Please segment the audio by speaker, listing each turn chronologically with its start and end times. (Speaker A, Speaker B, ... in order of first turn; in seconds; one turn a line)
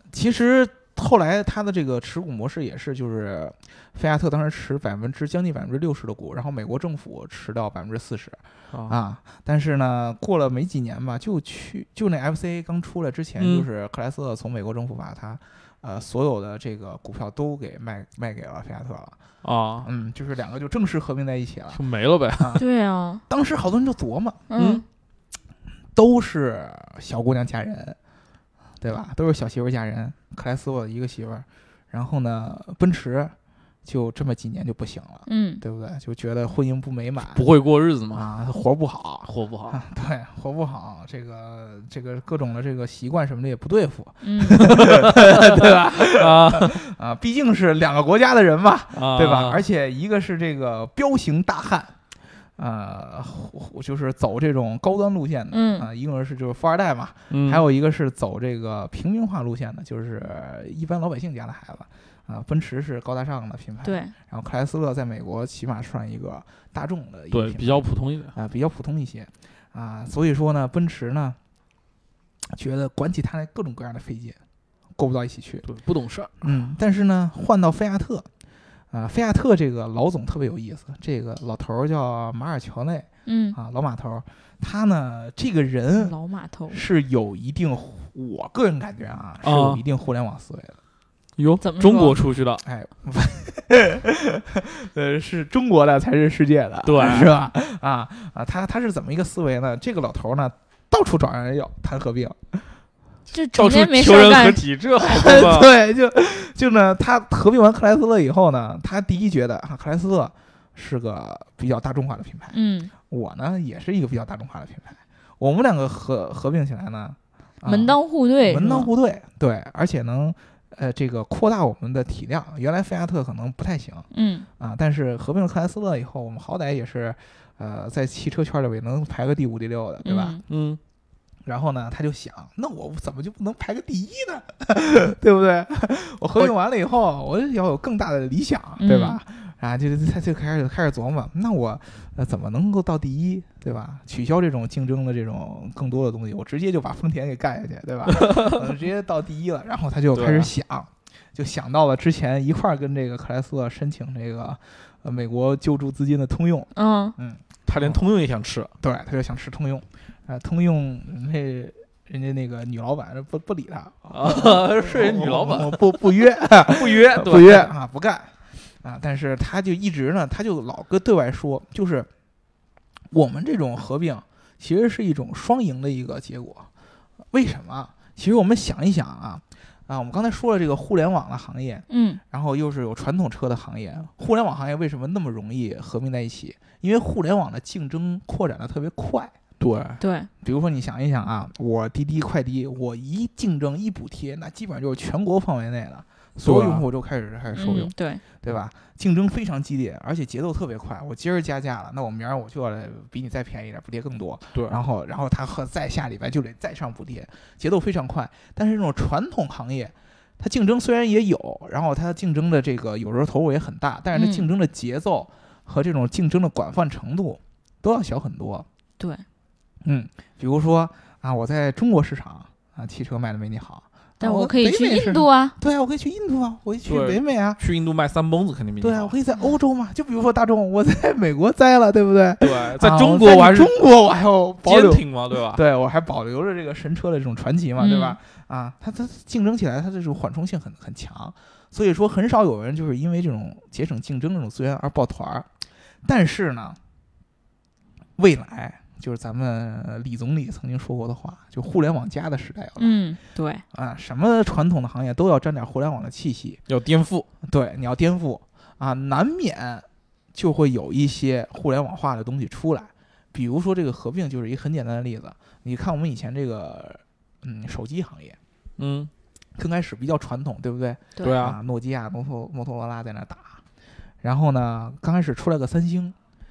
Speaker A: 0.1-19.2
Speaker B: 13.4-13.7
Speaker B: 19.4-19.9
Speaker A: 19.8-21.8
Speaker B: 21.7-22.6
Speaker A: 22.4-22.6
Speaker C: 22.6-23.2
Speaker A: 23.3-24.4
Speaker C: 24.5-24.8
Speaker B: 24.6-24.8
Speaker A: 25.9-28.0
Speaker A: 28.8-37.5
Speaker C: 35.3-35.6
Speaker B: 37.3-38.2
Speaker A: 38.1-52.0
Speaker B: 39.3-39.8
Speaker C: 44.2-44.7
Speaker B: 44.6-46.8
Speaker B: 48.9-49.6
Speaker A: 52.6-71.4
Speaker C: 55.5-55.9
Speaker B: 57.3-57.6
Speaker C: 63.8-64.1
Speaker B: 67.3-68.3
Speaker A: 72.5-74.4
Speaker A: 75.0-75.7
Speaker B: 75.7-76.4
Speaker A: 76.4-78.3
Speaker A: 78.9-86.1
Speaker C: 83.3-83.6
Speaker C: 86.0-86.8
Speaker A: 86.7-90.8
Speaker B: 89.4-89.8
Speaker B: 91.4-92.6
Speaker C: 91.6-92.2
Speaker A: 92.6-102.7
Speaker B: 96.9-97.3
Speaker C: 103.3-104.6
Speaker B: 103.6-105.7
Speaker A: 105.0-124.1
Speaker C: 112.5-112.9
Speaker C: 117.7-118.9
Speaker C: 124.1-124.5
Speaker A: 124.6-130.4
Speaker C: 130.1-130.4
Speaker B: 130.5-130.8
Speaker A: 131.4-158.0
Speaker C: 138.8-139.2
Speaker B: 148.1-148.6
Speaker B: 150.1-150.5
Speaker C: 156.8-157.2
Speaker B: 157.7-158.7
Speaker A: 158.8-172.1
Speaker B: 164.1-167.7
Speaker A: 173.1-176.7
Speaker A: 177.3-189.3
Speaker C: 181.9-182.2
Speaker B: 189.6-190.0
Speaker C: 190.0-190.3
Speaker A: 190.4-218.7
Speaker B: 196.4-196.8
Speaker C: 197.5-198.2
Speaker C: 214.1-214.5
Speaker C: 219.0-219.2
Speaker A: 219.8-227.6
Speaker C: 224.2-225.6
Speaker B: 226.9-229.1
Speaker A: 228.8-245.5
Speaker B: 232.4-233.7
Speaker B: 234.6-235.6
Speaker C: 237.8-238.2
Speaker A: 246.0-246.8
Speaker A: 248.2-253.0
Speaker C: 252.8-253.6
Speaker A: 253.7-256.6
Speaker B: 256.7-257.3
Speaker A: 257.4-268.4
Speaker B: 268.8-269.1
Speaker A: 269.6-273.6
Speaker B: 271.2-271.6
Speaker A: 274.2-276.1